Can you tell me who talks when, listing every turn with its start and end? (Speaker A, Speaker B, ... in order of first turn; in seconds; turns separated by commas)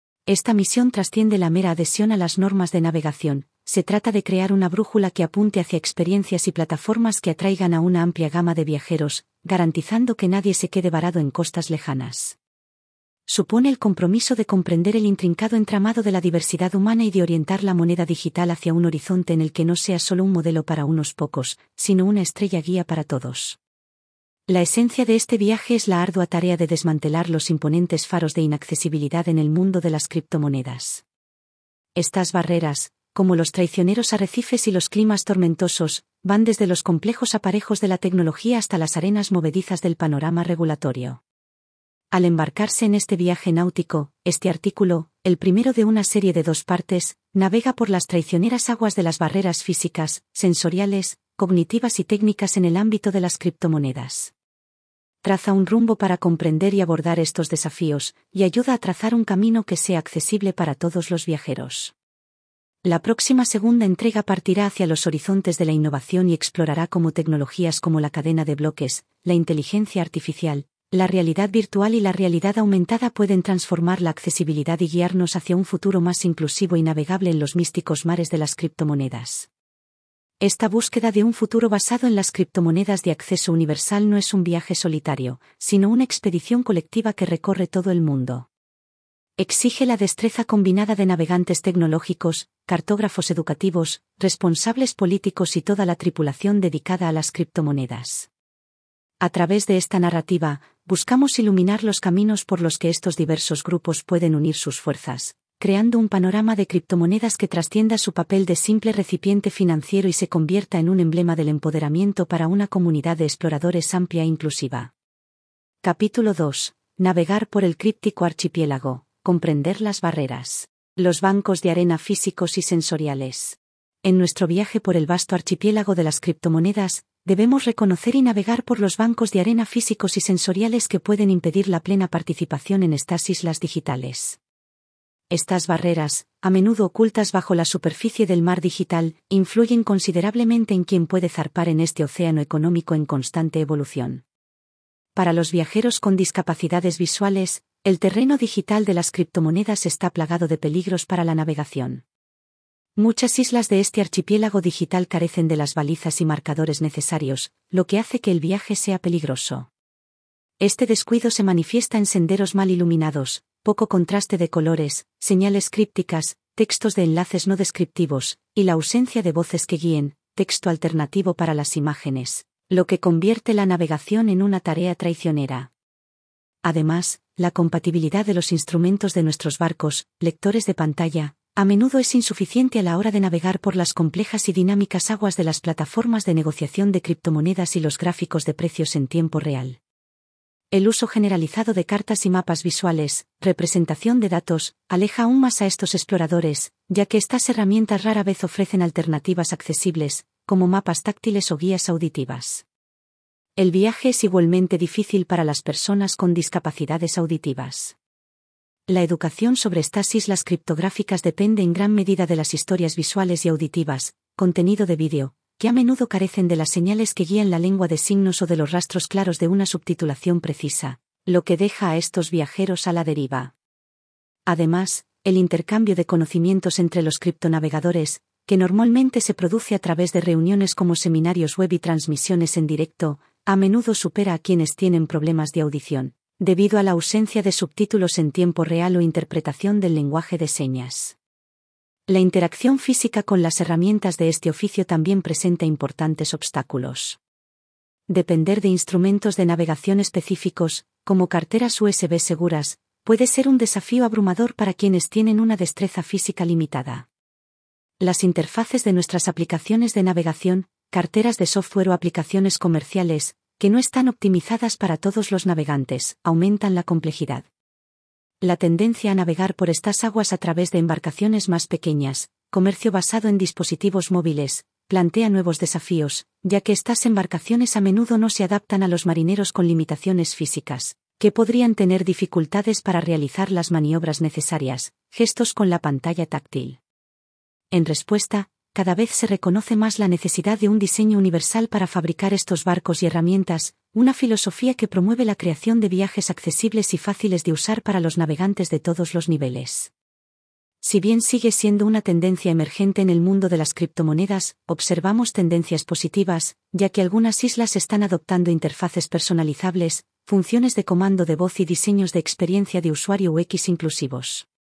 Speaker A: 0.3-12.4, Speaker A: 13.3-23.6, Speaker A: 24.5-31.0, Speaker A: 32.0-41.2, Speaker A: 42.1-54.3, Speaker A: 55.2-61.9, Speaker A: 62.8-79.5, Speaker A: 80.4-88.5, Speaker A: 89.4-98.3, Speaker A: 99.2-114.9, Speaker A: 115.8-134.4, Speaker A: 135.3-144.2, Speaker A: 145.2-152.0, Speaker A: 153.0-159.7, Speaker A: 160.6-175.7, Speaker A: 176.6-189.8, Speaker A: 190.7-202.7, Speaker A: 203.6-208.0, Speaker A: 208.9-223.5, Speaker A: 224.5-241.2, Speaker A: 242.1-247.2, Speaker A: 248.1-257.1, Speaker A: 258.0-267.5, Speaker A: 268.4-286.8, Speaker A: 287.7-299.9, Speaker A: 300.8-314.5